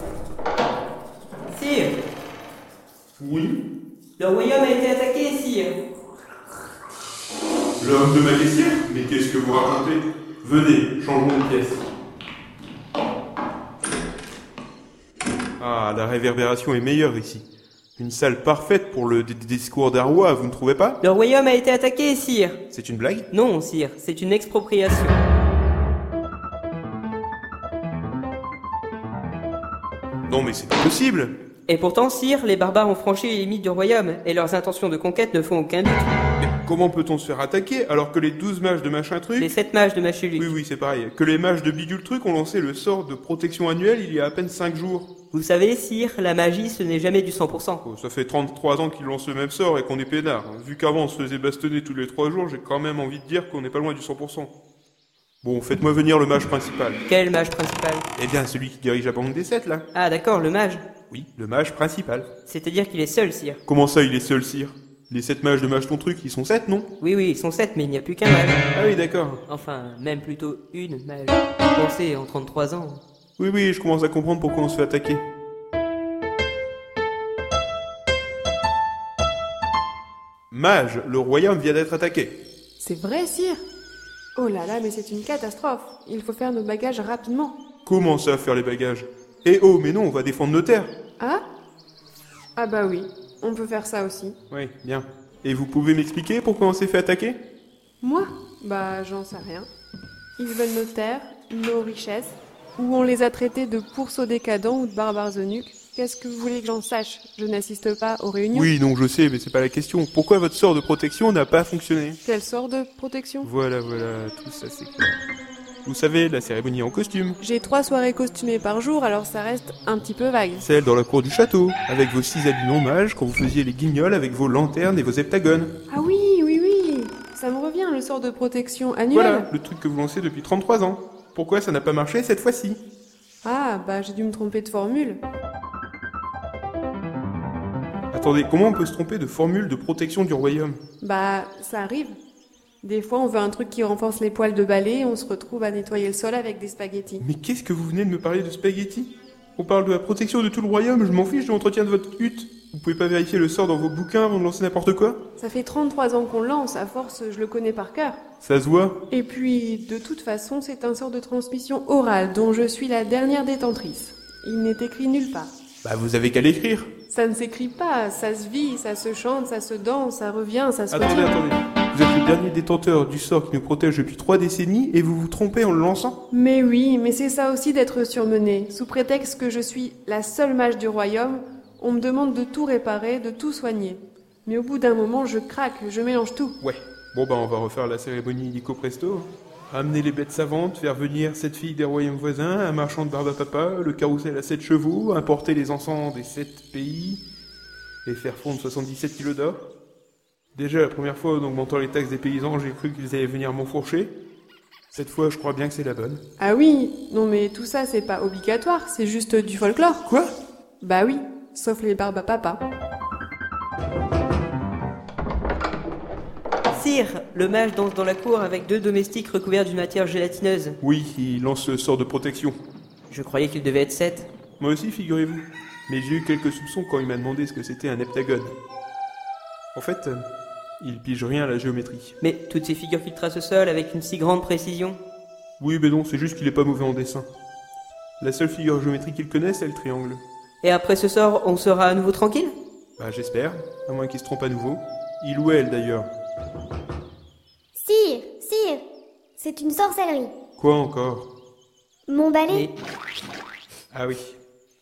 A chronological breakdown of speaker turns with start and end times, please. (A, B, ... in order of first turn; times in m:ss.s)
0:01.5-0:02.0 A
0:03.2-0:03.6 B
0:04.2-0:05.7 A
0:07.8-0:11.8 B
0:15.6-0:17.4 B
0:18.0-0:21.0 B
0:21.0-0:22.6 A
0:22.7-0:23.2 B
0:23.3-0:25.2 A
0:30.3-0:31.3 B
0:31.7-0:36.1 A
0:36.4-0:39.5 B
0:39.4-0:40.5 A
0:40.4-0:45.1 B
0:45.3-0:47.8 A
0:47.8-0:54.5 B
0:55.4-0:57.0 B
0:57.0-0:58.0 A
0:58.2-0:59.8 B
0:59.9-1:00.8 A
1:01.1-1:02.3 B
1:02.4-1:03.6 A
1:03.6-1:06.9 B
1:07.0-1:08.7 A
1:08.7-1:09.4 B
1:09.5-1:13.0 A
1:13.4-1:15.2 B
1:20.5-1:22.4 B
1:22.8-1:23.6 C
1:24.4-1:27.6 C
1:27.8-1:30.9 B
1:32.6-1:34.4 C
1:34.5-1:37.4 B
1:38.0-1:39.7 C
1:40.4-1:48.7 C
1:48.5-1:52.2 B
1:52.2-1:53.5 C
1:53.4-1:55.2 B
1:55.8-1:57.4 B
1:57.4-2:00.7 C
2:00.6-2:05.7 B
2:05.9-2:09.5 C
2:09.1-2:12.8 B
2:13.4-2:15.2 C
2:18.1-2:20.8 B
2:21.0-2:22.1 C
2:22.8-2:27.2 C
2:27.2-2:35.2 B
2:35.4-2:38.2 C
2:38.4-2:39.0 B
2:39.1-2:45.5 C
2:45.8-2:46.9 B
2:47.1-2:51.3 C
2:50.9-2:56.2 B
2:56.3-3:06.5 C
3:06.6-3:17.2 B
3:18.0-3:19.6 B
3:20.5-3:24.1 B
3:24.9-3:26.2 B
3:26.4-3:30.0 C
3:30.0-3:30.3 B
3:30.8-3:32.6 C
3:36.7-3:40.8 A
3:40.8-3:42.6 B
3:43.1-3:44.3 A
3:44.6-3:48.5 B
3:49.7-3:50.2 B
3:50.8-3:52.2 B
3:52.2-3:55.0 A
3:55.6-3:57.3 B
3:58.2-4:00.2 B
4:00.6-4:02.5 A
4:03.0-4:06.1 B
4:07.8-4:08.8 D
4:09.4-4:10.3 D
4:10.6-4:11.3 B
4:12.1-4:12.7 D
4:13.9-4:14.4 B